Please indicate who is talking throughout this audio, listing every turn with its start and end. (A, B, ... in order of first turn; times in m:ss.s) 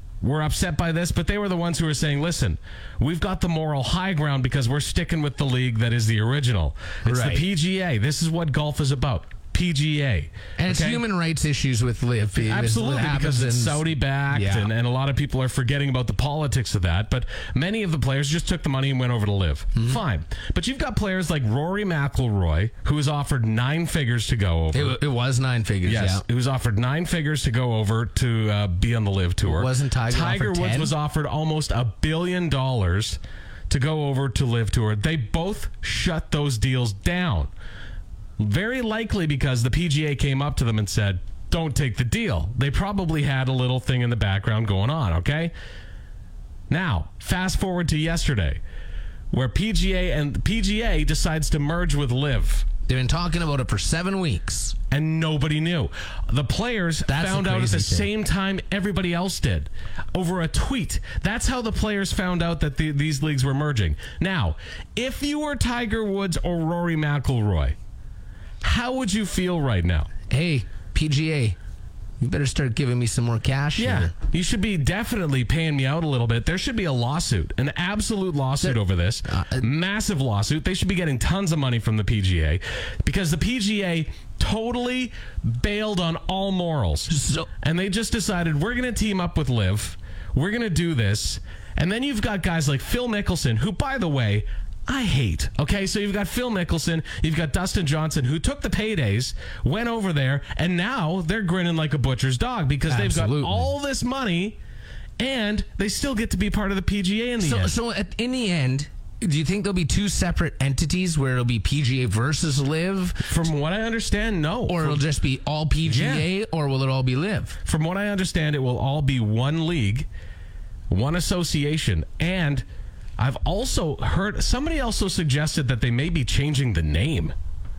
0:00.2-0:11.0 A
0:07.0-0:07.4 B
0:10.6-0:14.7 B
0:12.4-0:25.0 A
0:24.7-0:26.2 B
0:25.9-0:37.5 A
0:29.4-0:30.9 B
0:38.4-0:45.5 A
0:46.7-0:48.6 A
0:49.3-0:52.7 A
0:52.9-0:54.8 B
0:54.9-1:07.8 A
0:57.1-0:58.1 B
1:08.6-1:10.1 A
1:10.3-1:11.6 B
1:12.2-1:14.1 B
1:13.8-1:44.6 A
1:18.6-1:19.7 B
1:27.1-1:27.5 B
1:42.9-1:43.7 B
1:45.2-1:47.7 A
1:47.4-1:53.3 B
1:53.3-1:55.0 A
1:54.7-1:57.6 B
1:55.9-1:56.3 A
1:57.6-2:00.1 A
2:00.9-2:02.6 A
2:03.2-2:07.3 A